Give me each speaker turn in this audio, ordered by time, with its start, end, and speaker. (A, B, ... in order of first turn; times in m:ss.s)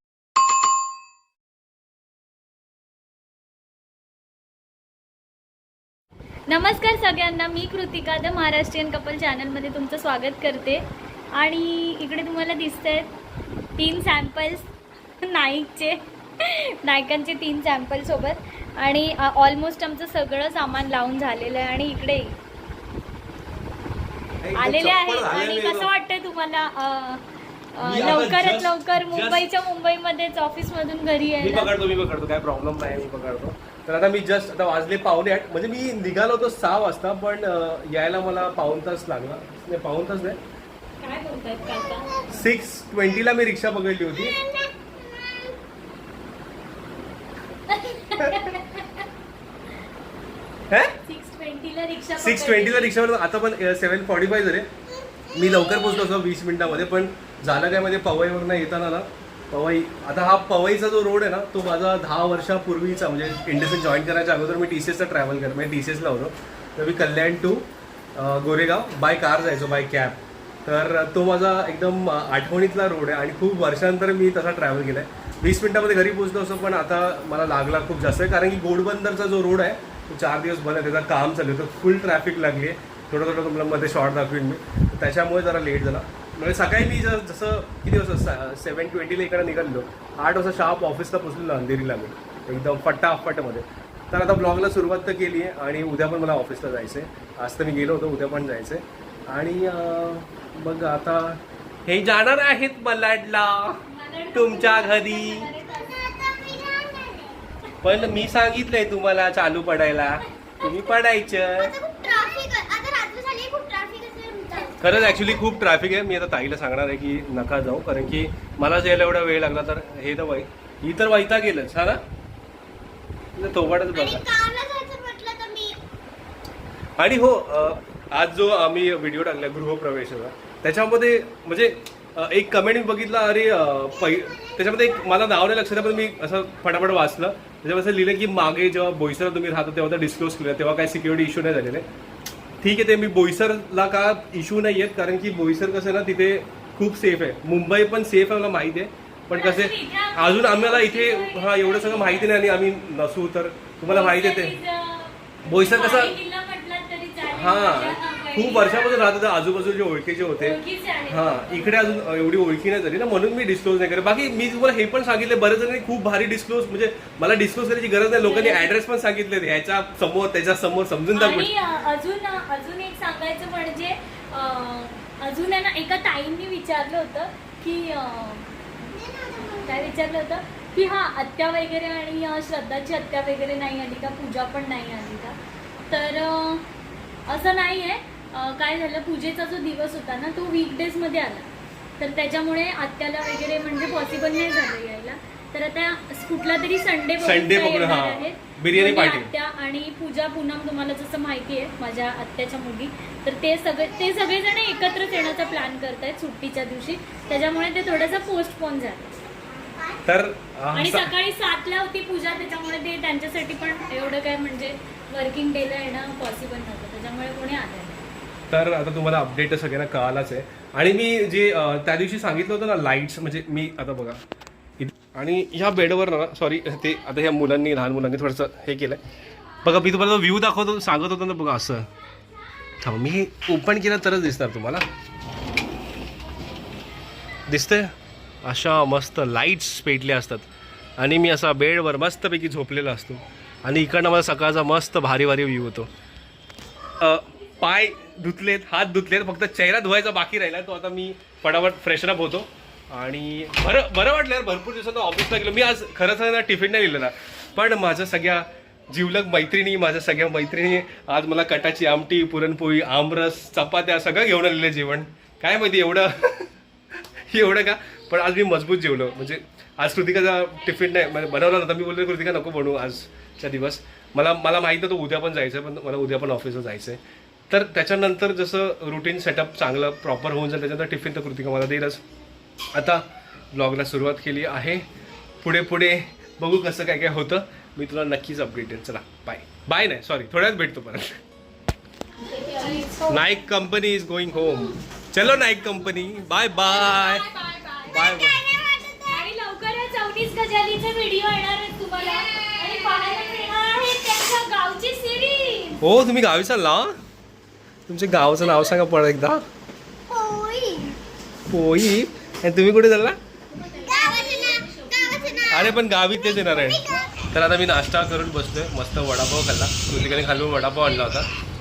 0:06.5-0:10.8 A
0:11.4-0:13.1 A
0:13.8-0:14.7 A
0:15.2-0:22.4 A
0:24.4-0:25.9 B
0:24.5-0:31.7 A
0:27.8-0:29.5 B
0:31.4-0:40.4 B
0:41.0-0:42.5 A
0:42.3-0:44.4 B
0:44.4-0:45.5 C
0:47.7-0:49.0 A
0:48.2-0:48.6 B
0:50.7-0:51.0 B
0:51.0-0:52.9 A
0:52.2-0:54.7 B
0:55.3-1:43.8 B
1:43.8-1:46.1 A
1:44.3-1:45.5 B
1:45.6-1:47.2 C
1:46.9-1:48.1 A
1:47.8-1:51.8 B
1:50.6-1:50.9 A
1:51.6-1:55.4 C
1:54.5-1:54.8 A
1:54.8-2:02.0 B
2:03.4-2:04.2 B
2:03.9-2:05.8 C
2:07.0-2:21.8 B
2:14.1-2:14.6 C
2:22.6-2:34.6 B
2:29.3-2:32.5 A
2:33.8-2:39.2 A
2:35.4-2:36.2 B
2:37.3-2:40.6 B
2:40.4-2:42.0 A
2:41.1-2:51.5 B
2:48.2-2:48.7 A
2:51.1-2:58.5 A
2:58.9-2:59.9 C
2:59.6-3:06.7 A
3:07.3-3:29.2 A
3:17.2-3:19.3 B
3:24.8-3:25.5 C
3:27.3-3:28.2 C
3:29.6-3:30.0 C
3:30.0-3:31.1 B
3:30.7-3:38.0 A
3:38.5-3:44.2 B
3:44.8-3:49.0 B
3:49.6-3:51.9 B
3:52.8-3:54.8 B
3:57.5-4:05.9 B
4:07.0-4:26.5 B
4:27.0-4:42.0 B
4:42.7-4:44.8 B
4:45.4-4:51.2 B
4:52.2-4:53.2 A
4:53.1-4:57.3 B
4:56.8-4:58.1 A
4:57.9-4:58.5 B
4:58.1-4:59.2 C
4:59.1-5:05.8 A
5:05.8-5:06.9 B
5:07.9-5:09.4 B
5:10.1-5:11.0 C
5:11.5-5:13.2 B
5:13.5-5:15.8 A
5:13.8-5:15.6 C
5:15.5-5:21.3 B
5:16.4-5:17.0 C